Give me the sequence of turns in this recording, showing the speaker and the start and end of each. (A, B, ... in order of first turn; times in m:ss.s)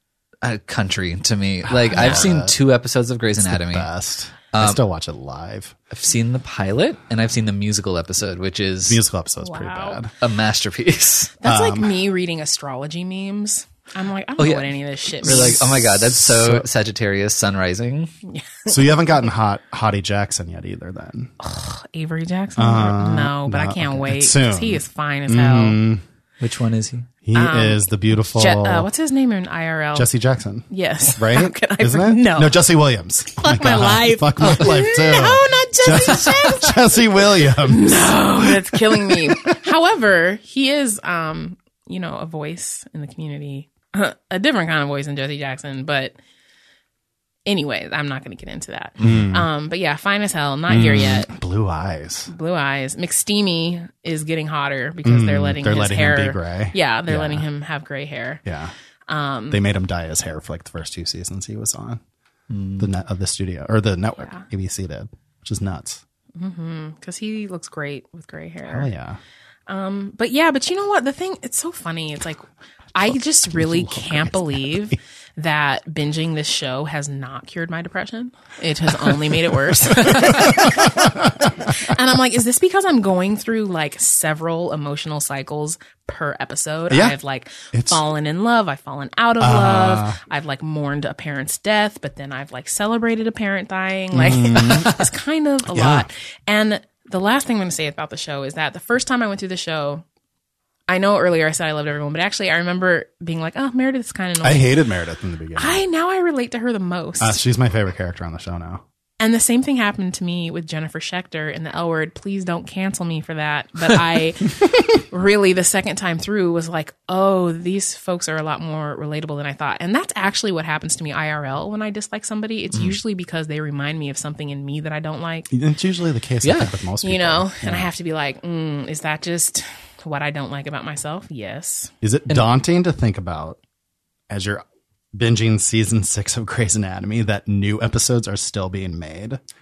0:00.4-0:03.9 A
0:01.6-0:02.5 B
0:01.9-0:02.3 C
0:03.4-0:05.8 B
0:04.5-0:04.8 A
0:05.9-0:09.0 A
0:08.8-0:10.1 B
0:09.4-0:10.0 C
0:10.2-0:11.4 A
0:11.4-0:15.6 C
0:11.4-0:11.9 B
0:14.4-0:18.1 A
0:15.2-0:16.7 B
0:18.2-0:19.0 C
0:18.7-0:21.3 B
0:21.4-0:25.8 C
0:22.6-0:26.0 B
0:26.4-0:27.1 A
0:27.2-0:28.9 B
0:27.3-0:30.1 C
0:29.9-0:39.4 B
0:30.7-0:32.6 C
0:33.4-0:37.0 C
0:34.4-0:34.8 A
0:37.6-0:46.2 C
0:47.4-0:51.3 C
0:49.0-0:49.5 B
0:50.7-0:52.3 B
0:52.3-0:58.4 C
0:55.0-0:57.4 B
0:58.4-0:58.7 B
0:59.1-0:59.6 C
0:59.5-1:02.0 B
1:02.5-1:02.9 A
1:02.8-1:06.0 B
1:06.4-1:08.9 C
1:08.7-1:09.2 B
1:09.7-1:40.0 C
1:13.0-1:14.9 B
1:19.9-1:21.3 B
1:26.9-1:27.1 B
1:27.7-1:28.0 B
1:29.4-1:30.2 B
1:34.1-1:35.1 B
1:35.7-1:36.1 B
1:40.9-1:44.8 C
1:44.4-1:45.8 B
1:45.6-1:47.4 C
1:47.2-1:48.8 B
1:49.2-2:05.5 C
2:05.5-2:07.9 B
2:06.4-2:06.7 A
2:07.0-2:11.9 C
2:12.0-2:13.6 B
2:14.3-2:19.4 B